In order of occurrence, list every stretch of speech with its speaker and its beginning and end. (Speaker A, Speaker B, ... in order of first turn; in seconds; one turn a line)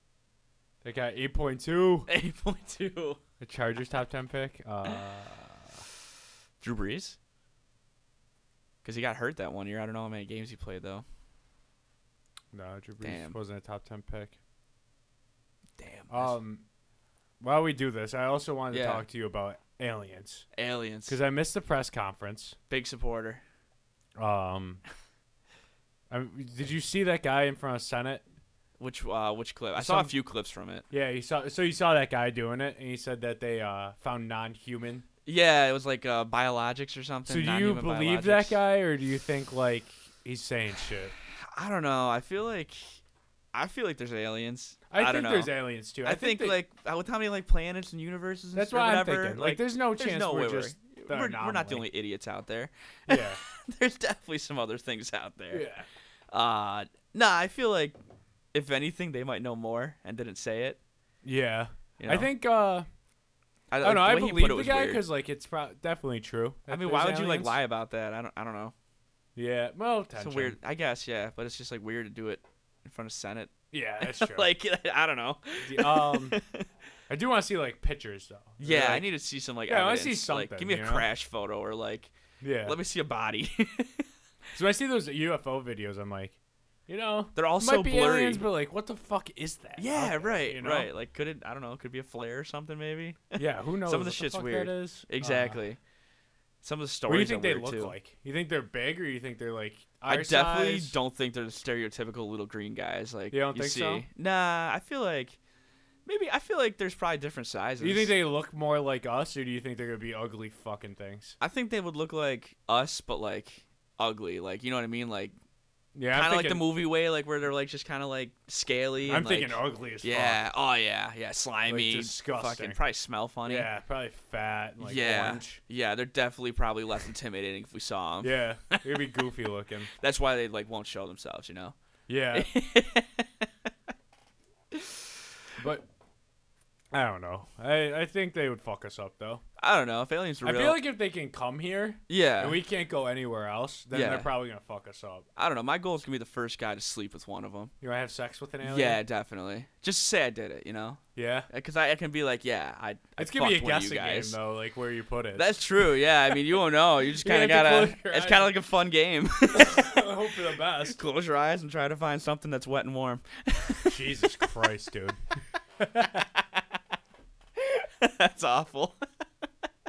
Speaker A: 0.8-2.1
Speaker B: 2.1-3.2
Speaker A: 3.4-5.8
Speaker B: 6.6-7.2
Speaker B: 8.8-11.0
Speaker A: 12.5-14.3
Speaker B: 13.0-13.3
Speaker B: 15.8-16.3
Speaker A: 16.1-16.6
Speaker A: 17.4-20.5
Speaker B: 18.7-19.0
Speaker B: 20.5-21.2
Speaker A: 21.1-22.6
Speaker B: 22.7-23.4
Speaker A: 24.2-24.8
Speaker A: 26.1-28.2
Speaker B: 28.8-30.8
Speaker A: 29.8-30.1
Speaker A: 30.9-35.0
Speaker B: 35.2-38.6
Speaker A: 37.3-41.1
Speaker B: 41.4-43.0
Speaker B: 43.5-55.7
Speaker A: 44.9-46.6
Speaker A: 48.5-51.8
Speaker A: 53.1-53.4
Speaker A: 55.5-55.9
Speaker B: 56.3-58.0
Speaker B: 58.5-60.8
Speaker A: 61.2-62.9
Speaker B: 62.0-62.3
Speaker B: 63.7-65.0
Speaker A: 63.8-67.6
Speaker B: 66.7-68.7
Speaker A: 69.3-70.5
Speaker B: 70.2-76.7
Speaker A: 73.7-74.5
Speaker A: 75.6-76.4
Speaker A: 77.1-79.1
Speaker B: 78.6-82.1
Speaker A: 79.7-81.1
Speaker A: 82.4-82.8
Speaker B: 82.6-84.0
Speaker A: 84.5-86.3
Speaker A: 86.9-90.9
Speaker B: 87.3-88.5
Speaker B: 89.8-95.8
Speaker A: 93.3-95.6
Speaker B: 96.6-97.9
Speaker A: 97.1-101.0
Speaker B: 100.1-105.4
Speaker A: 103.3-104.0
Speaker B: 106.0-108.1
Speaker A: 107.8-111.4
Speaker B: 111.4-115.3
Speaker A: 115.9-116.6
Speaker B: 116.1-123.7
Speaker A: 119.0-120.4
Speaker A: 121.7-122.8
Speaker A: 123.5-125.6
Speaker B: 124.8-129.0
Speaker A: 128.2-129.9
Speaker B: 130.0-131.7
Speaker A: 132.1-132.5
Speaker B: 132.3-133.5
Speaker B: 134.7-135.0
Speaker A: 135.6-135.8
Speaker A: 136.9-139.4
Speaker B: 139.6-140.8
Speaker A: 140.4-145.2
Speaker B: 142.1-142.6
Speaker B: 143.9-144.3
Speaker B: 145.3-147.7
Speaker A: 147.8-149.0
Speaker B: 148.6-154.4
Speaker A: 151.1-151.5
Speaker A: 153.2-155.5
Speaker B: 155.3-160.0
Speaker A: 157.2-158.5
Speaker A: 159.5-161.0
Speaker B: 160.8-164.2
Speaker A: 163.8-165.2
Speaker A: 165.8-166.2
Speaker B: 167.6-169.0